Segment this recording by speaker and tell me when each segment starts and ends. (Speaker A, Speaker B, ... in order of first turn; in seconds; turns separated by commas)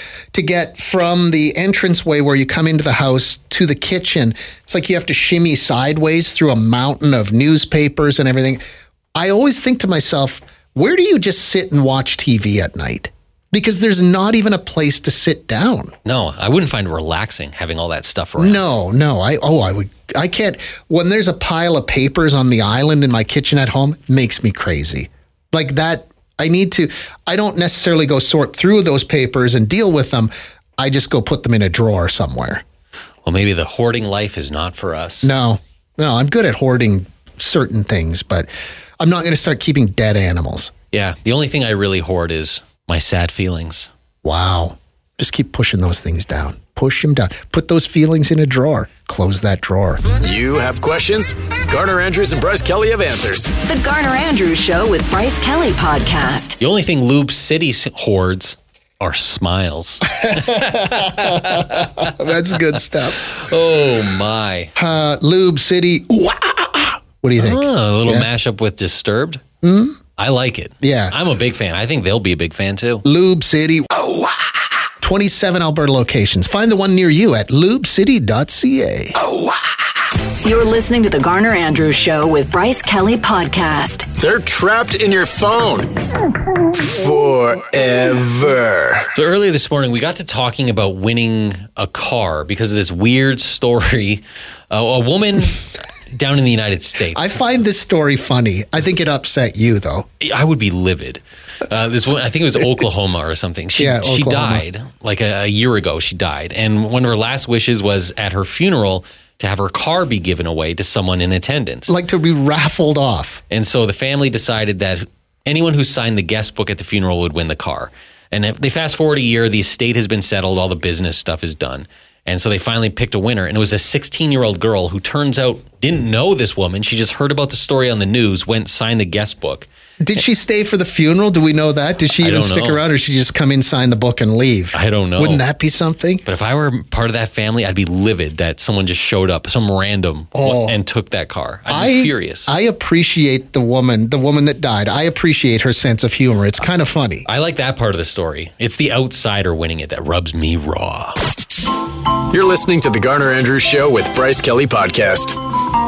Speaker A: 0.3-8.6, Speaker A: 9.2-15.9, Speaker B: 16.1-18.6, Speaker A: 18.4-32.6, Speaker B: 33.2-35.3, Speaker A: 35.2-40.7, Speaker B: 40.9-43.9, Speaker A: 44.2-50.0, Speaker C: 50.2-53.5, Speaker D: 53.6-56.6, Speaker B: 56.6-62.3, Speaker A: 60.2-63.2, Speaker B: 63.2-64.7, Speaker A: 64.8-68.3, Speaker B: 67.4-69.4, Speaker A: 69.6-70.0, Speaker B: 70.2-73.0, Speaker A: 70.8-71.2, Speaker A: 73.0-74.0, Speaker A: 75.0-79.2, Speaker D: 80.4-84.1, Speaker C: 84.2-85.9, Speaker C: 86.8-89.1, Speaker B: 89.1-97.4, Speaker A: 97.1-100.1, Speaker B: 100.2-112.0, Speaker A: 103.8-104.6, Speaker A: 111.9-113.4, Speaker B: 113.5-129.7, Speaker A: 130.0-136.3, Speaker B: 132.2-132.8, Speaker B: 134.7-135.4, Speaker B: 136.2-142.5, Speaker A: 140.3-140.8, Speaker A: 141.7-147.3, Speaker B: 147.3-151.2, Speaker C: 152.3-155.4